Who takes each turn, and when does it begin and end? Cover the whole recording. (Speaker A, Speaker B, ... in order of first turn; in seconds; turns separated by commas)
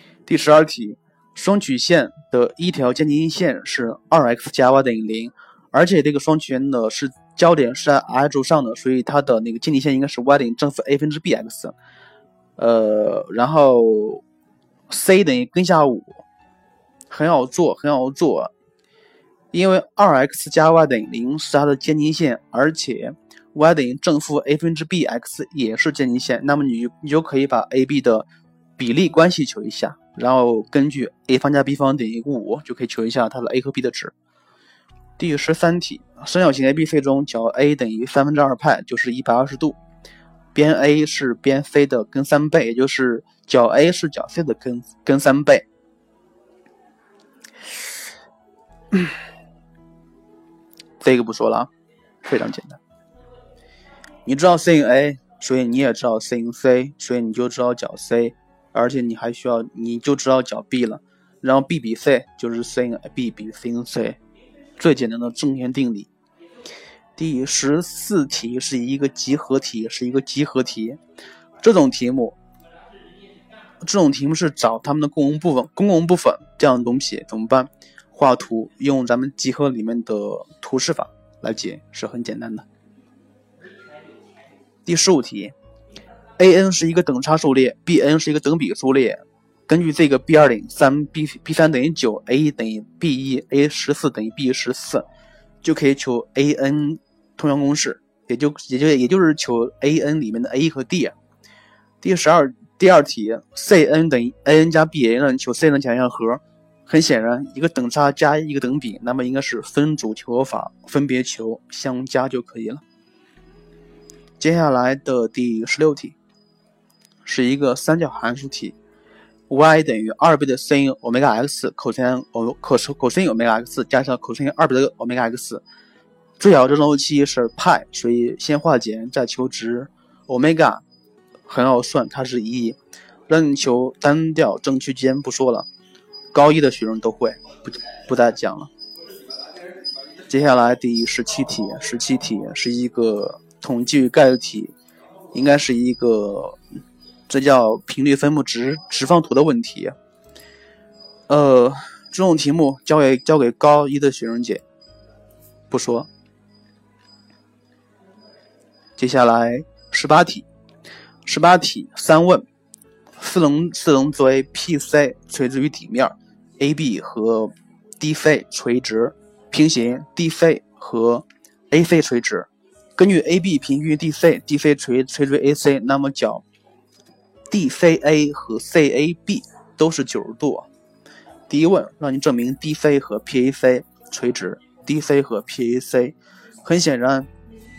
Speaker A: 0.3-11.7, Speaker A: 12.6-14.2, Speaker A: 14.9-16.2, Speaker A: 17.1-18.5, Speaker A: 19.5-34.1, Speaker A: 35.2-39.8, Speaker A: 40.5-45.6, Speaker A: 51.0-51.7, Speaker A: 52.2-52.8, Speaker A: 54.2-64.2, Speaker A: 64.8-66.1, Speaker A: 67.2-71.0, Speaker A: 71.6-72.4, Speaker A: 73.8-82.7, Speaker A: 84.8-85.5, Speaker A: 86.4-95.0, Speaker A: 95.6-101.1, Speaker A: 102.0-112.8, Speaker A: 114.4-116.2, Speaker A: 117.2-118.8, Speaker A: 119.5-125.6, Speaker A: 126.4-130.8, Speaker A: 131.4-132.8, Speaker A: 133.3-135.7, Speaker A: 136.3-138.7, Speaker A: 140.3-144.7, Speaker A: 145.3-146.6, Speaker A: 147.3-149.9, Speaker A: 151.3-154.6, Speaker A: 155.7-156.1, Speaker A: 159.0-160.4, Speaker A: 161.2-162.4, Speaker A: 163.2-176.4, Speaker A: 177.5-180.7, Speaker A: 181.5-187.3